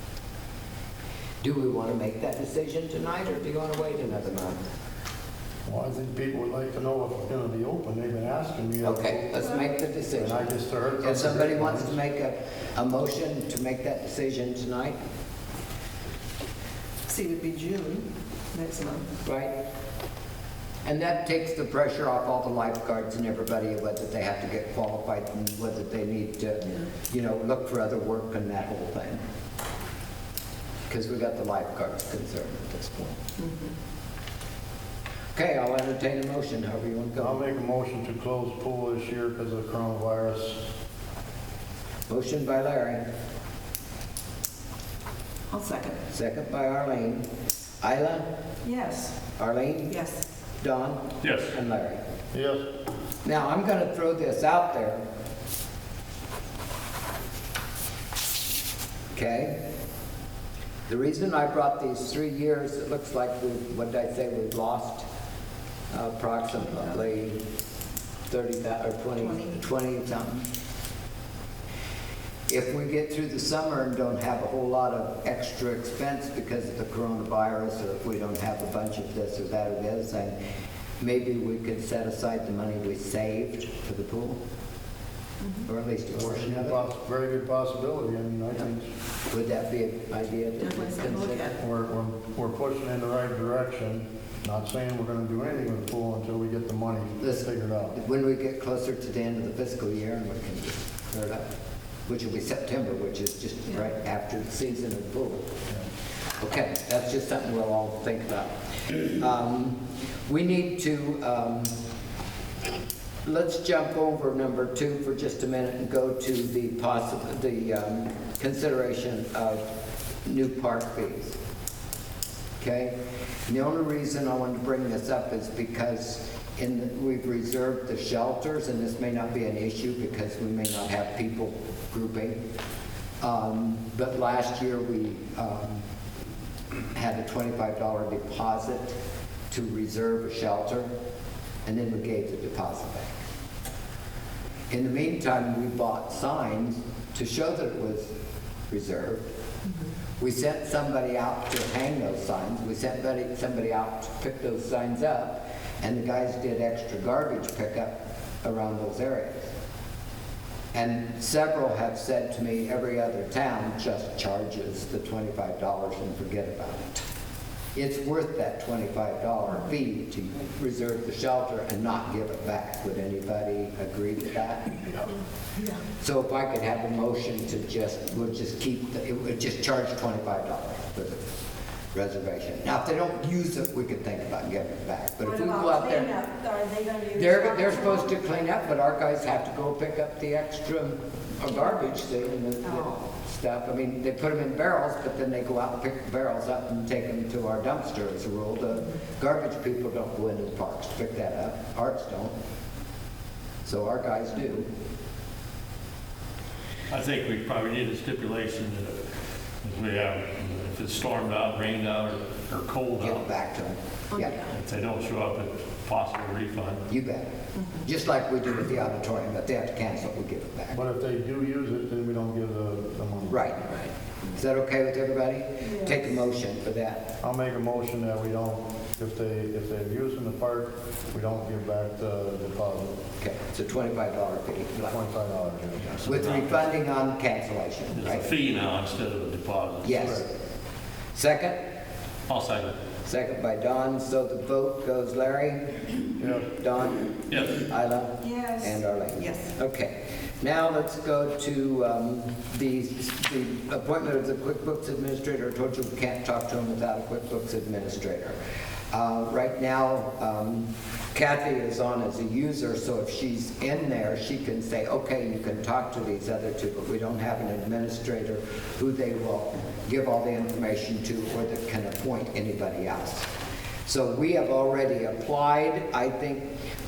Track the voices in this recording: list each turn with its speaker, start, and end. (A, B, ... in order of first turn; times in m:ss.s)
0:01.4-0:04.6 A
0:05.6-0:09.4 B
0:08.8-0:15.0 A
0:10.2-0:12.0 B
0:17.1-0:19.1 C
0:19.2-0:19.5 A
0:20.8-0:29.2 A
0:30.9-0:33.1 A
0:33.4-0:33.7 C
0:35.3-0:37.4 A
0:37.2-0:40.6 B
0:42.1-0:43.0 A
0:45.5-0:46.0 C
0:46.1-0:47.2 A
0:47.8-0:48.2 A
0:48.6-0:49.2 C
0:49.4-0:50.0 A
0:49.9-0:50.2 C
0:50.6-0:52.0 A
0:51.2-0:51.5 D
0:52.3-0:52.6 B
0:53.2-0:55.0 A
0:59.1-0:59.6 A
1:00.9-1:05.0 A
1:05.9-1:07.4 A
1:08.3-1:10.4 A
1:12.5-1:20.4 A
1:21.0-1:24.4 A
1:25.6-1:26.8 A
1:26.1-1:28.9 B
1:29.3-1:31.5 A
1:30.6-1:31.6 C
1:31.6-1:37.9 B
1:37.2-1:41.5 A
1:42.1-1:45.5 A
1:46.4-1:51.7 A
1:53.2-1:59.6 A
2:00.2-2:01.4 A
2:02.6-2:03.0 A
2:03.5-2:12.4 A
2:13.2-2:15.8 A
2:16.9-2:19.0 A
2:19.5-2:20.9 A
2:21.6-2:23.1 A
2:24.7-2:28.1 A
2:28.7-2:29.2 A
2:30.2-2:39.5 A
2:40.7-2:46.9 A
2:47.7-2:55.1 A
2:56.0-3:01.2 A
3:01.9-3:06.2 A
3:05.4-3:07.5 E
3:07.1-3:22.3 A
3:23.6-3:24.7 A
3:26.9-3:29.0 D
3:29.6-3:33.2 D
3:33.0-3:34.4 A
3:34.4-3:36.8 D
3:36.9-3:40.8 A
3:40.7-3:43.4 B
3:43.3-3:43.8 A
3:44.3-3:47.0 A
3:47.2-3:53.0 B
3:53.2-3:55.0 A
3:54.9-3:56.0 B
3:55.8-3:56.6 D
3:56.0-3:58.3 A
3:57.9-4:00.0 D
3:59.8-4:00.3 A
4:01.1-4:01.6 A
4:02.3-4:02.8 D
4:03.0-4:05.8 A
4:06.2-4:06.5 B
4:06.5-4:18.4 A
4:07.3-4:07.6 D
4:08.3-4:08.6 E
4:18.9-4:33.3 A
4:33.8-4:36.5 A